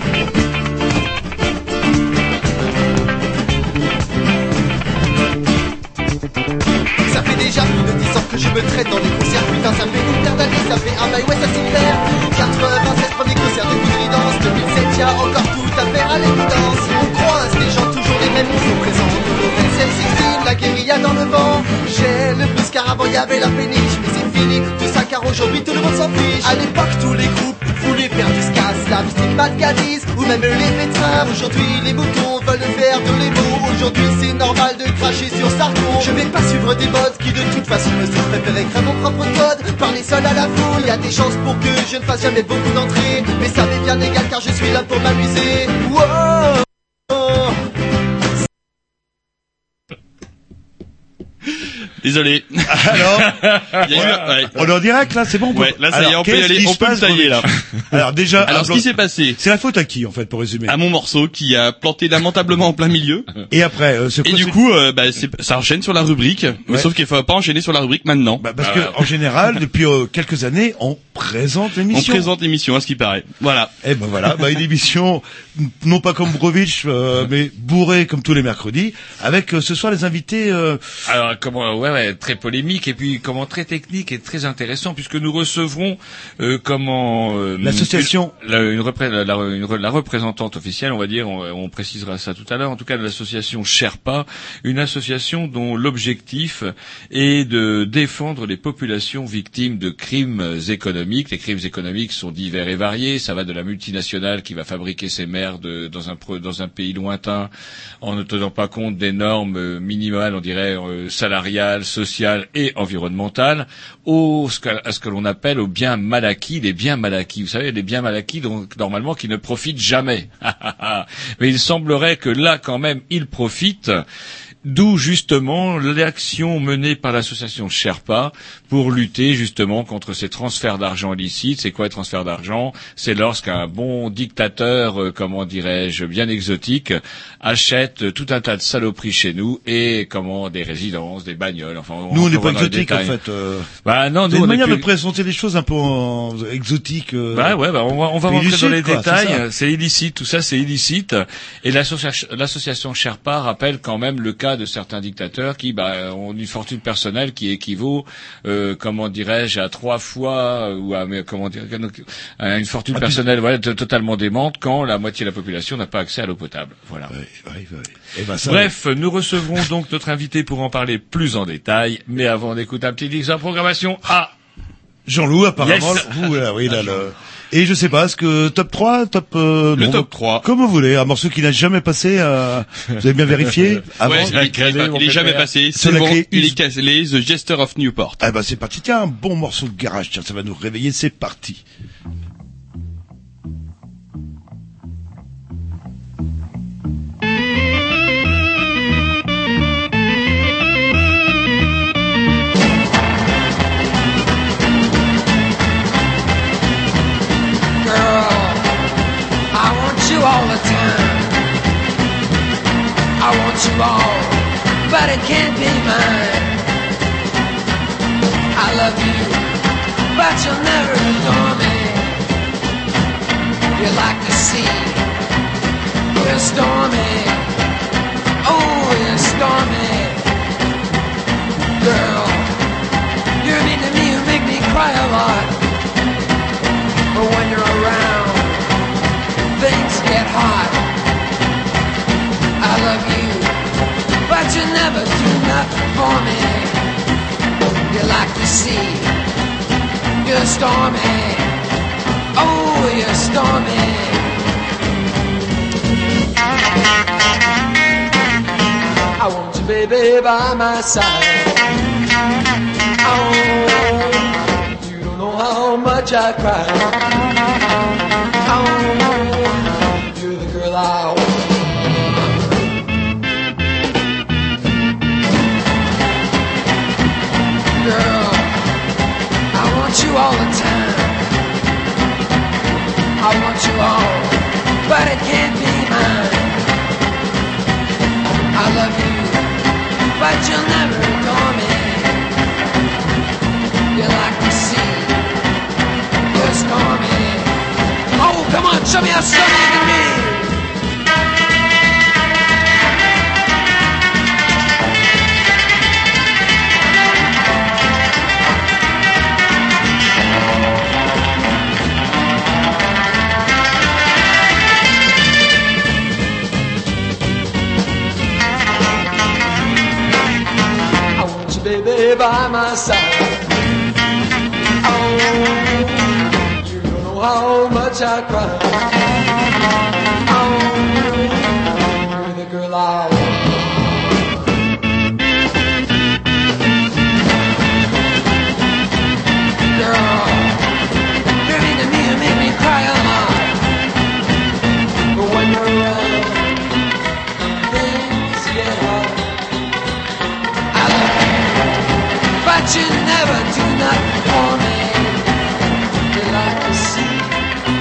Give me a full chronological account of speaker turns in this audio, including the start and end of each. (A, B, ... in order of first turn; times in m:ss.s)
0:07.1-0:46.5 A
0:47.1-0:47.6 A
0:52.0-0:53.2 B
0:52.7-0:53.4 C
0:53.4-0:54.1 D
0:53.7-0:54.6 B
0:53.9-1:00.8 C
0:55.5-0:57.5 B
0:58.4-0:59.4 B
1:00.7-1:03.3 B
1:03.5-1:04.6 C
1:04.2-1:08.4 B
1:08.4-1:12.3 C
1:08.6-1:08.9 D
1:11.9-1:13.7 B
1:13.8-1:20.8 C
1:21.1-1:47.5 D
1:27.6-1:28.3 C
1:48.0-2:04.0 D
2:04.6-2:23.1 D
2:22.1-2:23.7 C
2:23.8-2:24.9 D
2:24.3-2:27.6 C
2:27.3-2:47.1 D
2:28.3-2:29.4 C
2:42.9-2:43.2 C
2:47.1-2:48.7 C
2:48.4-2:54.3 D
2:55.1-3:04.5 C
2:55.6-2:57.0 D
2:59.8-3:00.4 B
3:04.0-3:05.5 D
3:04.0-3:08.2 B
3:05.7-3:06.6 C
3:08.2-3:11.6 C
3:27.8-3:28.7 E
3:29.5-3:31.4 E
3:33.2-3:36.6 E
3:38.6-3:39.5 E
3:40.1-3:42.2 E
3:43.8-3:45.0 E
3:46.2-3:47.5 E
3:48.4-3:50.2 E
3:51.8-3:52.6 E
3:53.4-3:55.6 E
3:57.1-3:58.6 E
3:59.5-4:00.8 E
4:02.6-4:03.6 E
4:04.3-4:06.8 E
4:07.9-4:09.1 E
4:10.2-4:11.5 E
4:12.4-4:14.3 E
4:19.2-4:21.6 E
4:23.0-4:27.0 E
4:28.5-4:32.7 E
4:37.7-4:38.5 E
4:39.5-4:41.2 E
4:43.2-4:46.6 E
4:48.5-4:49.5 E
4:50.2-4:52.2 E
4:53.9-4:55.2 E
4:56.3-4:57.6 E
4:58.2-5:00.5 E
5:21.2-5:23.5 E
5:24.8-5:28.9 E
5:30.3-5:34.2 E
5:39.7-5:40.6 E
5:41.4-5:43.6 E
5:45.1-5:46.5 E
5:47.6-5:49.3 E
5:50.7-5:51.6 E
5:52.4-5:55.4 E
5:56.1-5:57.4 E